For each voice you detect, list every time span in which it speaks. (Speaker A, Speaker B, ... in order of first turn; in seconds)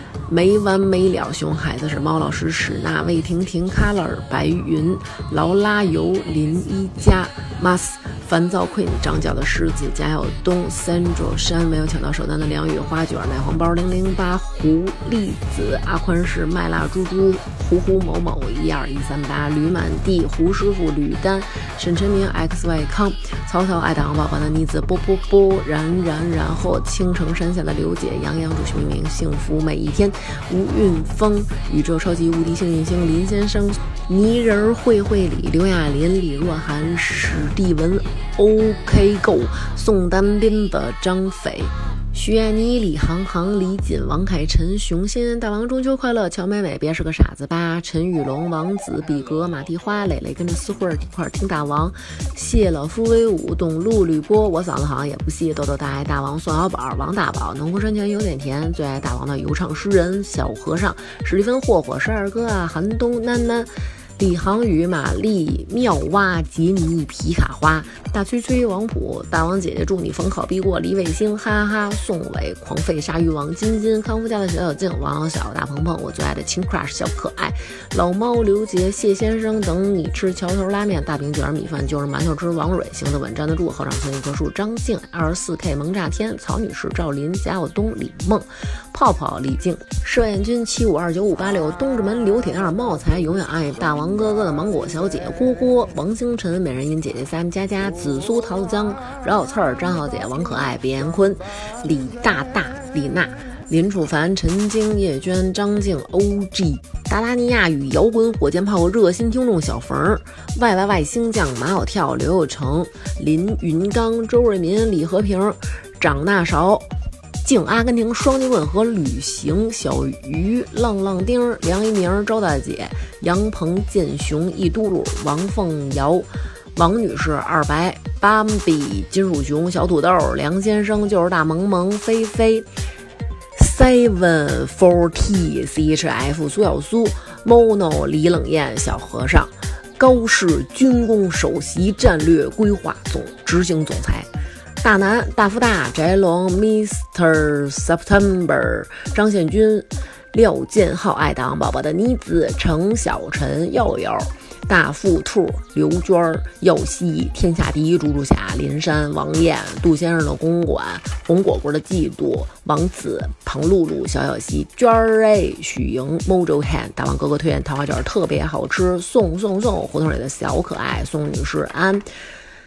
Speaker A: 0.3-116.9, 117.4-132.7, 133.6-144.3, 144.8-172.1